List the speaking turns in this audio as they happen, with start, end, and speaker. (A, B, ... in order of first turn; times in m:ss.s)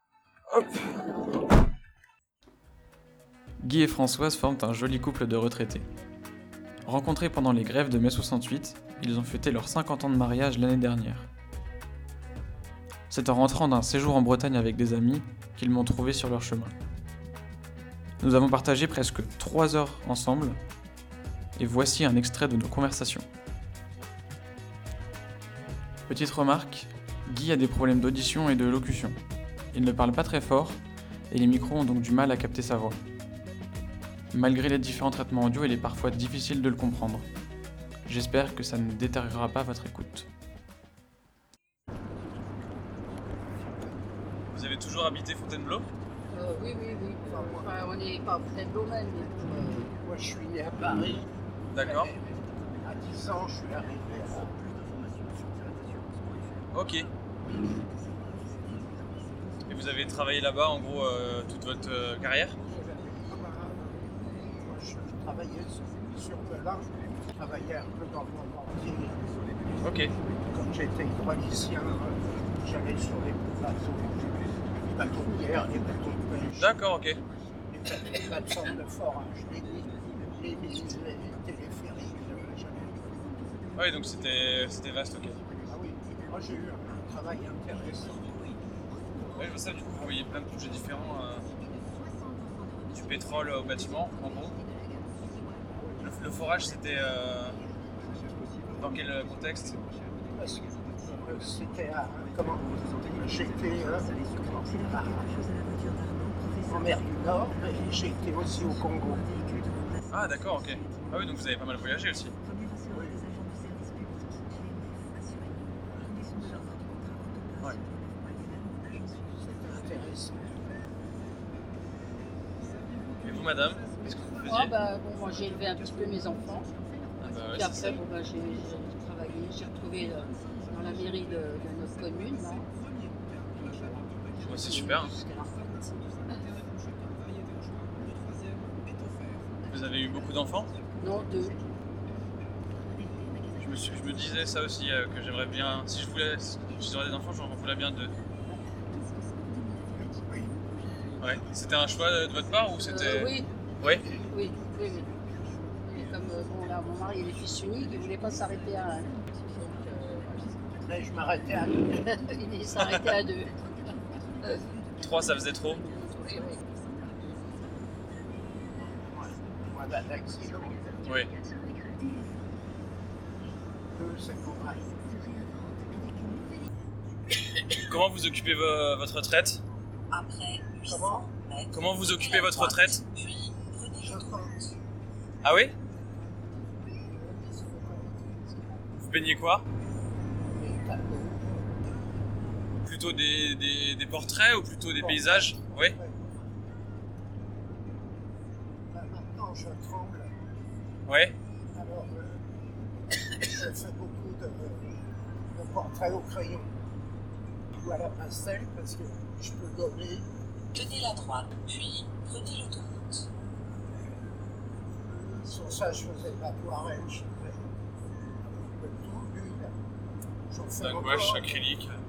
0:00.5-0:00.8 A
0:03.6-0:05.9 B
0:06.8-0:11.3 B
0:13.1-0:16.7 B
0:18.2-0:20.6 B
0:21.6-0:23.3 B
0:26.1-0:29.2 B
0:29.7-0:33.0 B
0:34.3-0:37.3 B
0:38.0-0:40.3 B
0:44.5-0:45.9 A
0:46.3-0:49.9 C
0:47.2-0:47.8 D
0:49.9-0:54.7 D
0:51.7-0:52.1 A
0:56.7-0:57.1 A
0:59.7-1:02.6 A
1:02.6-1:09.2 D
1:09.8-1:10.1 A
1:10.4-1:16.7 D
1:16.6-1:17.2 A
1:17.7-1:23.4 D
1:23.7-1:25.4 A
1:25.6-1:28.4 D
1:29.3-1:31.4 A
1:32.9-1:34.6 A
1:35.7-1:36.1 D
1:36.0-1:37.6 A
1:38.8-1:39.8 A
1:40.3-1:45.6 D
1:46.6-1:49.7 D
1:50.1-1:52.4 A
1:52.9-1:53.4 D
1:55.9-1:56.7 D
1:59.4-2:00.6 D
2:03.2-2:04.7 A
2:04.4-2:06.7 C
2:07.2-2:08.0 A
2:07.5-2:12.7 C
2:13.5-2:16.0 C
2:14.4-2:15.1 A
2:19.7-2:20.7 A
2:21.0-2:21.6 C
2:23.6-2:28.1 A
2:30.0-2:30.6 D
2:31.2-2:34.0 A
2:32.9-2:33.5 C
2:34.1-2:35.2 C
2:35.8-2:40.5 C
2:40.8-2:42.1 D
2:41.8-2:43.6 C
2:42.8-2:43.2 A
2:44.4-2:44.7 C
2:45.0-2:45.8 A
2:45.8-2:46.6 C
2:48.7-2:51.2 D
2:51.0-2:51.3 A
2:53.9-2:55.0 D
2:57.8-2:59.6 A
3:00.1-3:04.7 E
3:00.8-3:01.3 D
3:01.7-3:03.0 A
3:04.0-3:04.6 D
3:05.4-3:05.7 A
3:06.9-3:08.8 D
3:09.0-3:09.7 A
3:10.4-3:11.7 D
3:12.8-3:15.9 A
3:15.0-3:16.6 D
3:18.9-3:20.4 D
3:21.1-3:21.4 A
3:21.7-3:22.4 D
3:23.4-3:25.0 D
3:25.5-3:26.7 D
3:27.8-3:30.3 D
3:30.7-3:33.3 E
3:35.0-3:37.7 D
3:38.4-3:39.7 D
3:40.5-3:41.6 D
3:40.8-3:42.0 A